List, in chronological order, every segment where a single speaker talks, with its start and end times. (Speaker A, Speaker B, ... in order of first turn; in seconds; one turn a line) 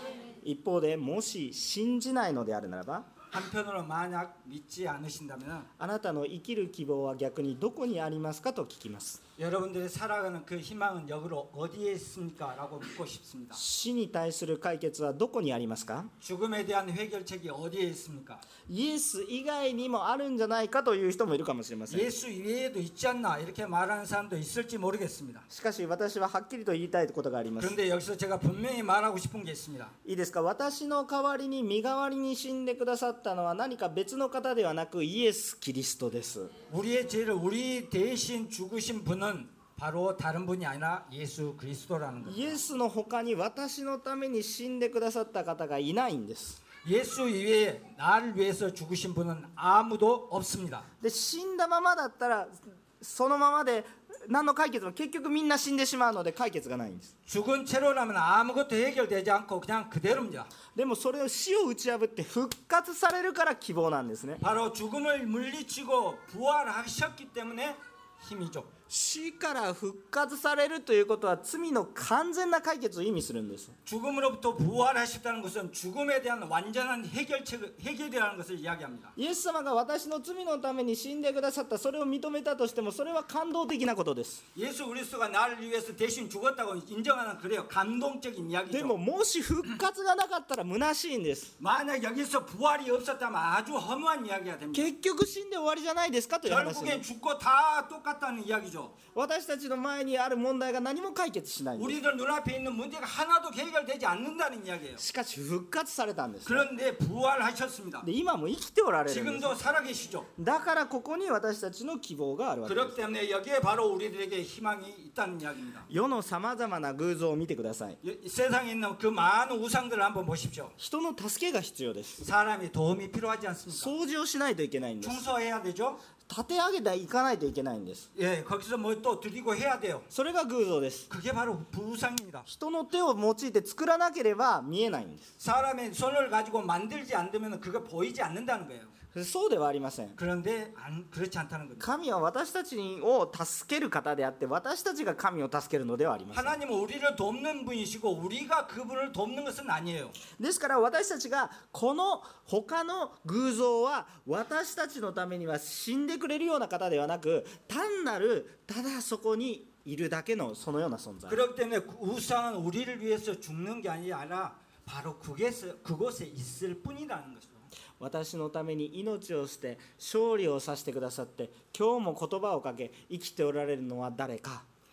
Speaker A: 0.4-3.1
Speaker B: 3.3-5.7
Speaker A: 5.8-9.2
Speaker B: 9.4-13.6
Speaker A: 13.6-16.1
Speaker B: 16.2-18.5
Speaker A: 18.7-22.1
Speaker B: 21.9-25.5
Speaker A: 25.5-27.8
Speaker B: 27.6-29.9
Speaker A: 30.1-36.5
Speaker B: 36.7-42.6
Speaker A: 42.3-46.6
Speaker B: 46.8-50.9
Speaker A: 51.0-57.1
Speaker B: 57.3-60.5
Speaker A: 60.7-64.4
Speaker B: 64.4-68.7
Speaker A: 68.9-73.8
Speaker B: 73.9-79.1
Speaker A: 79.2-84.4
Speaker B: 84.5-89.0
Speaker A: 88.7-91.5
Speaker B: 91.6-94.9
Speaker A: 94.7-97.0
Speaker B: 96.5-99.0
Speaker A: 99.1-102.0
Speaker B: 101.8-105.0
Speaker A: 105.0-106.7
Speaker B: 106.5-108.1
Speaker A: 108.0-109.6
Speaker B: 109.1-110.3
Speaker A: 110.4-113.0
Speaker B: 112.7-115.9
Speaker A: 115.9-118.0
Speaker B: 118.0-120.7
Speaker A: 120.8-122.2
Speaker B: 122.2-123.9
Speaker A: 123.7-125.3
Speaker B: 125.0-126.0
Speaker A: 126.3-128.1
Speaker B: 128.2-130.1
Speaker A: 130.1-131.1
Speaker B: 131.1-132.5
Speaker A: 132.5-135.3
Speaker B: 135.4-138.9
Speaker A: 139.1-140.2
Speaker B: 140.2-141.9
Speaker A: 141.8-146.6
Speaker B: 146.3-150.2
Speaker A: 150.3-161.4
Speaker B: 161.3-167.7
Speaker A: 168.0-174.7